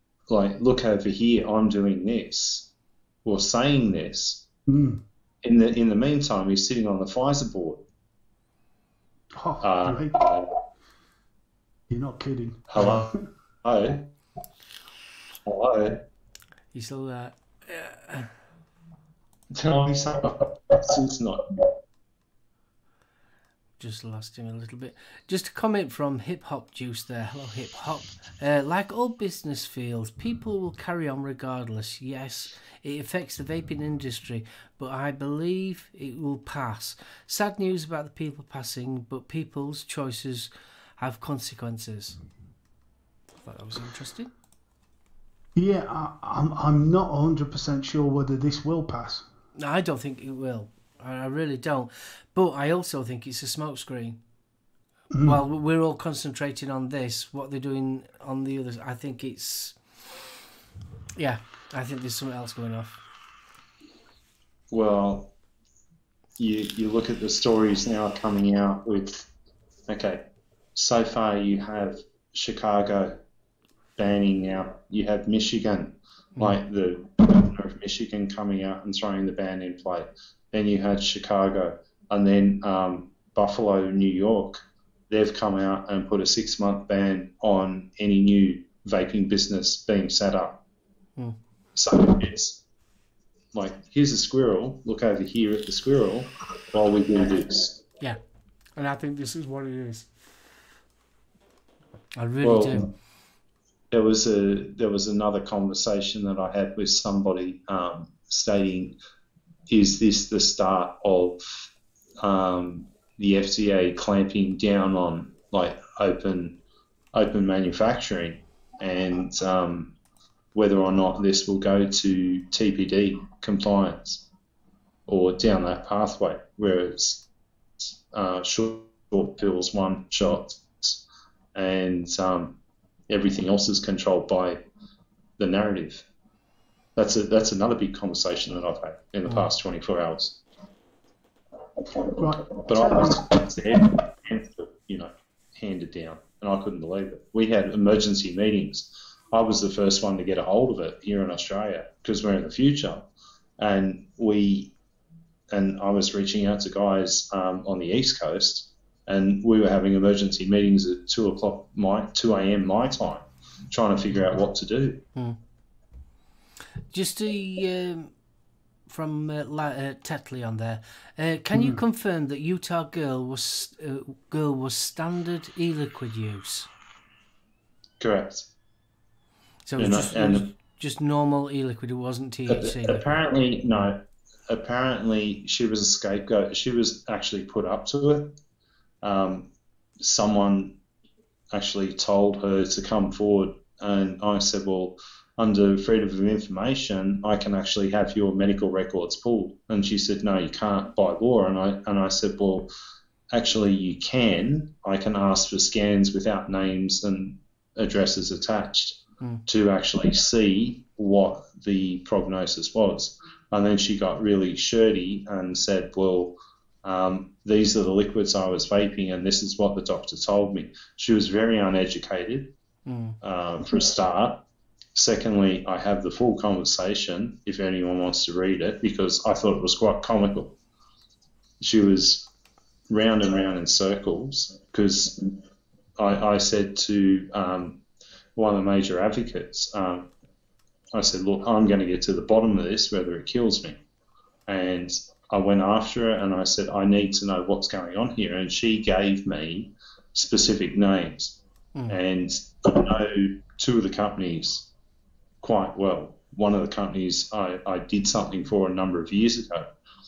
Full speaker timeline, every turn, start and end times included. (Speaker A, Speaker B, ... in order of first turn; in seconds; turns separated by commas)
Speaker A: 0.3-2.7, Speaker A: 3.2-4.4, Speaker B: 4.7-5.0, Speaker A: 5.4-7.8, Speaker B: 9.3-10.2, Speaker A: 9.6-10.5, Speaker B: 11.9-13.2, Speaker A: 12.7-14.1, Speaker A: 15.4-16.0, Speaker C: 16.7-18.3, Speaker A: 19.5-21.4, Speaker C: 23.8-42.2, Speaker C: 43.4-44.3, Speaker B: 45.5-49.2, Speaker C: 49.5-54.2, Speaker B: 55.1-55.4, Speaker C: 55.2-59.8, Speaker C: 61.1-63.0, Speaker A: 64.7-65.3, Speaker A: 66.4-69.3, Speaker A: 69.9-70.2, Speaker A: 70.7-73.2, Speaker A: 74.0-90.6, Speaker A: 91.7-92.6, Speaker A: 93.5-97.8, Speaker C: 98.8-100.1, Speaker C: 102.2-102.9, Speaker A: 102.4-102.9, Speaker A: 103.9-109.0, Speaker A: 109.7-111.7, Speaker A: 112.2-116.5, Speaker A: 117.1-119.9, Speaker A: 120.5-124.2, Speaker A: 125.1-127.2, Speaker A: 127.8-131.0, Speaker A: 131.5-132.5, Speaker A: 133.1-134.6, Speaker A: 135.4-136.0, Speaker A: 136.9-140.4, Speaker B: 142.2-143.2, Speaker A: 142.6-153.0, Speaker A: 153.6-154.7, Speaker A: 155.5-165.0, Speaker C: 166.9-168.1, Speaker C: 168.9-176.7, Speaker B: 171.5-171.8, Speaker A: 178.0-178.5, Speaker C: 179.7-183.0, Speaker A: 179.8-180.4, Speaker A: 182.5-183.9, Speaker A: 184.5-188.3, Speaker A: 189.0-189.5, Speaker A: 190.0-190.7, Speaker A: 191.5-202.7, Speaker A: 203.3-216.3, Speaker A: 216.8-222.5, Speaker C: 222.8-223.2, Speaker A: 223.2-224.3, Speaker A: 224.9-230.5, Speaker A: 231.6-232.3, Speaker A: 232.9-235.2, Speaker A: 236.0-237.8, Speaker A: 238.3-240.1, Speaker A: 240.9-243.8, Speaker A: 244.5-251.4, Speaker A: 251.9-254.7, Speaker A: 255.4-259.7